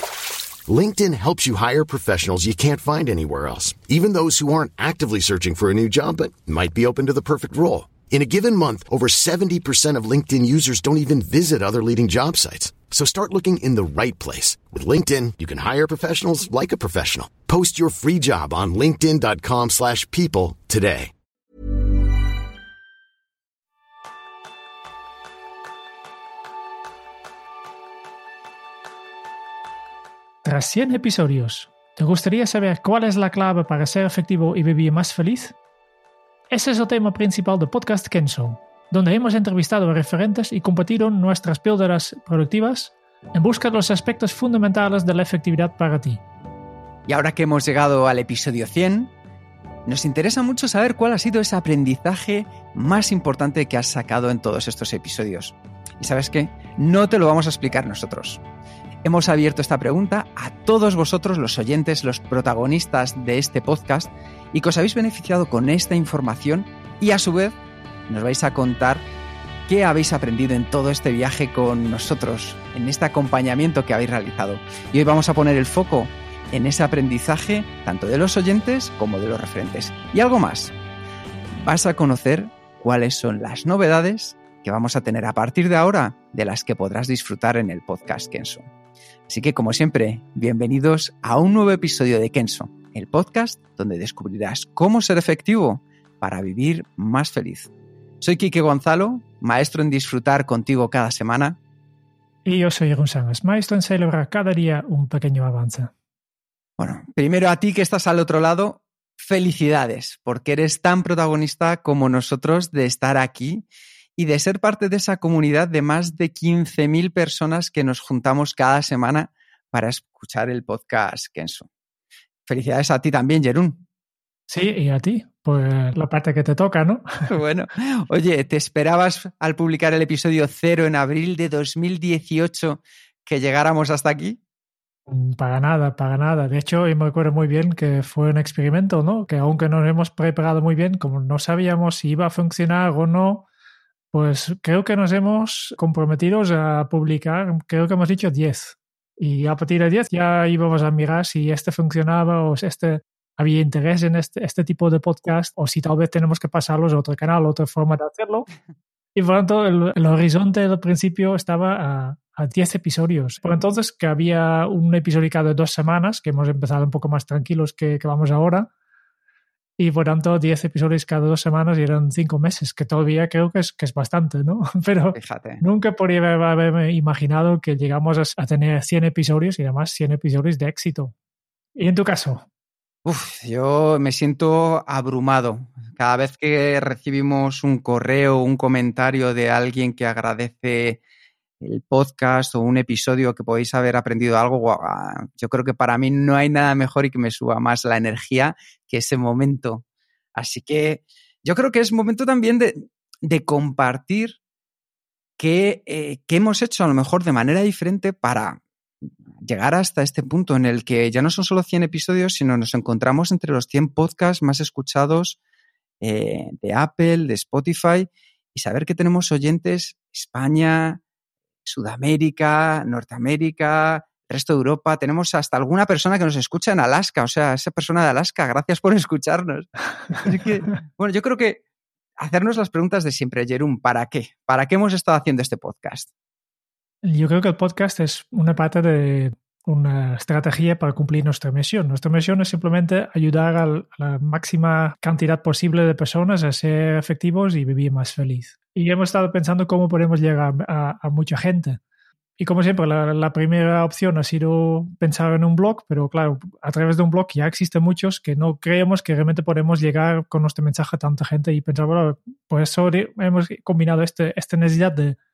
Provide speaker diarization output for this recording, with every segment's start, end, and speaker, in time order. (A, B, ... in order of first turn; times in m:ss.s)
0:00.7-0:21.1 A
0:30.4-0:35.5 B
0:36.5-0:46.2 B
0:47.1-0:49.1 C
0:49.8-0:58.4 C
0:59.0-1:07.6 C
1:08.1-1:09.0 C
1:09.7-1:20.7 C
1:21.6-1:28.6 C
1:29.3-1:37.7 C
1:38.2-1:41.6 C
1:42.4-1:45.9 B
1:46.8-1:53.6 C
1:54.2-2:01.7 C
2:02.4-2:03.8 C
2:04.5-2:07.0 B
2:07.3-2:14.4 C
2:15.1-2:23.4 B
2:24.1-2:38.5 B
2:39.2-2:48.7 B
2:49.8-3:01.1 B
2:55.2-2:55.6 C
3:01.8-3:02.4 B
3:03.0-3:11.0 C
3:11.6-3:19.8 C
3:20.4-3:24.4 C
3:25.4-3:28.6 C
3:29.4-3:35.4 C
3:36.0-3:41.0 C
3:41.6-3:51.6 C
3:52.2-3:56.1 C
3:57.0-4:11.8 B
4:12.4-4:25.2 B